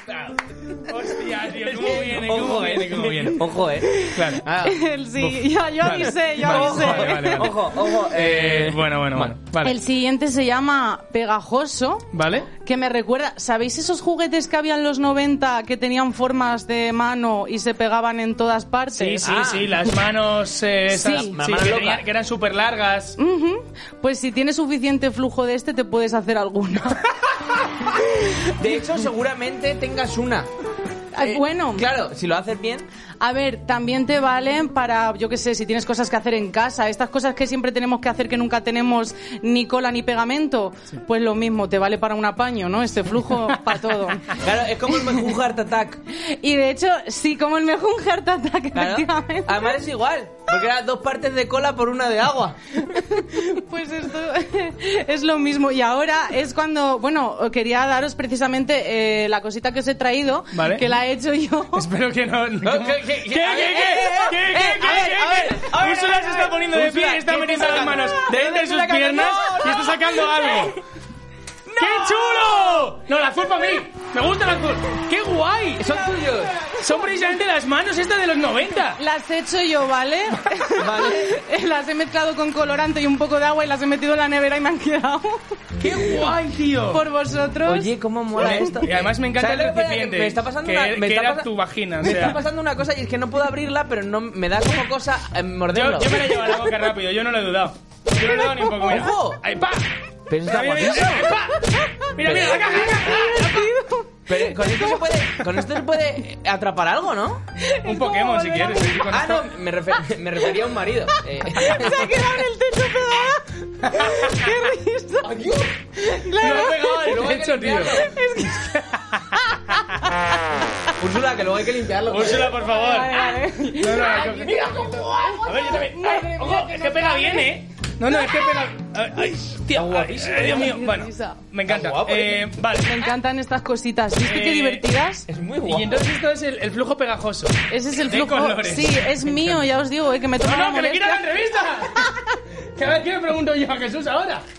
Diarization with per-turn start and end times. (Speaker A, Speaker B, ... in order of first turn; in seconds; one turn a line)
Speaker A: 0.8-4.4
Speaker B: 1.6-4.8
Speaker C: 4.0-7.5
Speaker A: 5.2-9.7
Speaker B: 6.4-9.3
Speaker C: 9.6-19.4
Speaker A: 12.1-12.5
Speaker A: 18.9-23.1
Speaker B: 19.2-19.8
Speaker C: 20.9-21.3
Speaker B: 20.9-22.0
Speaker C: 23.2-27.1
Speaker B: 28.5-30.5
Speaker C: 31.1-31.9
Speaker B: 31.2-32.9
Speaker C: 33.2-44.3
Speaker B: 44.4-46.0
Speaker C: 46.1-49.8
Speaker B: 48.7-52.6
Speaker C: 52.9-61.9
Speaker A: 60.5-60.9
Speaker A: 61.7-70.8
Speaker B: 62.6-70.7
Speaker B: 71.7-72.5
Speaker A: 71.8-79.0
Speaker B: 75.8-76.6
Speaker C: 76.5-77.3
Speaker C: 79.0-85.9
Speaker B: 80.8-81.3
Speaker A: 85.8-87.0
Speaker C: 86.9-88.8
Speaker B: 87.6-91.5
Speaker A: 88.4-92.4
Speaker B: 92.0-96.3
Speaker A: 95.7-99.9
Speaker C: 98.1-99.0
Speaker B: 98.8-99.4
Speaker B: 100.3-101.3
Speaker A: 100.4-103.7
Speaker C: 101.5-105.0
Speaker B: 102.2-103.1
Speaker B: 104.3-107.4
Speaker C: 107.6-109.1
Speaker A: 107.8-109.5
Speaker B: 109.1-112.3
Speaker C: 111.5-115.4
Speaker A: 113.9-114.2
Speaker B: 115.2-115.8
Speaker C: 116.0-120.9
Speaker A: 116.4-118.0
Speaker B: 117.0-118.1
Speaker B: 121.0-122.5
Speaker A: 122.1-124.9
Speaker C: 122.5-124.5
Speaker B: 124.0-125.9
Speaker A: 125.4-132.9
Speaker C: 125.6-127.6
Speaker B: 129.7-130.8
Speaker C: 130.4-131.4
Speaker B: 131.7-132.5
Speaker C: 132.8-135.3
Speaker A: 134.2-134.8
Speaker B: 135.3-136.0
Speaker A: 135.6-139.6
Speaker C: 137.7-141.2
Speaker A: 140.4-142.1
Speaker C: 141.9-142.2
Speaker A: 142.8-144.4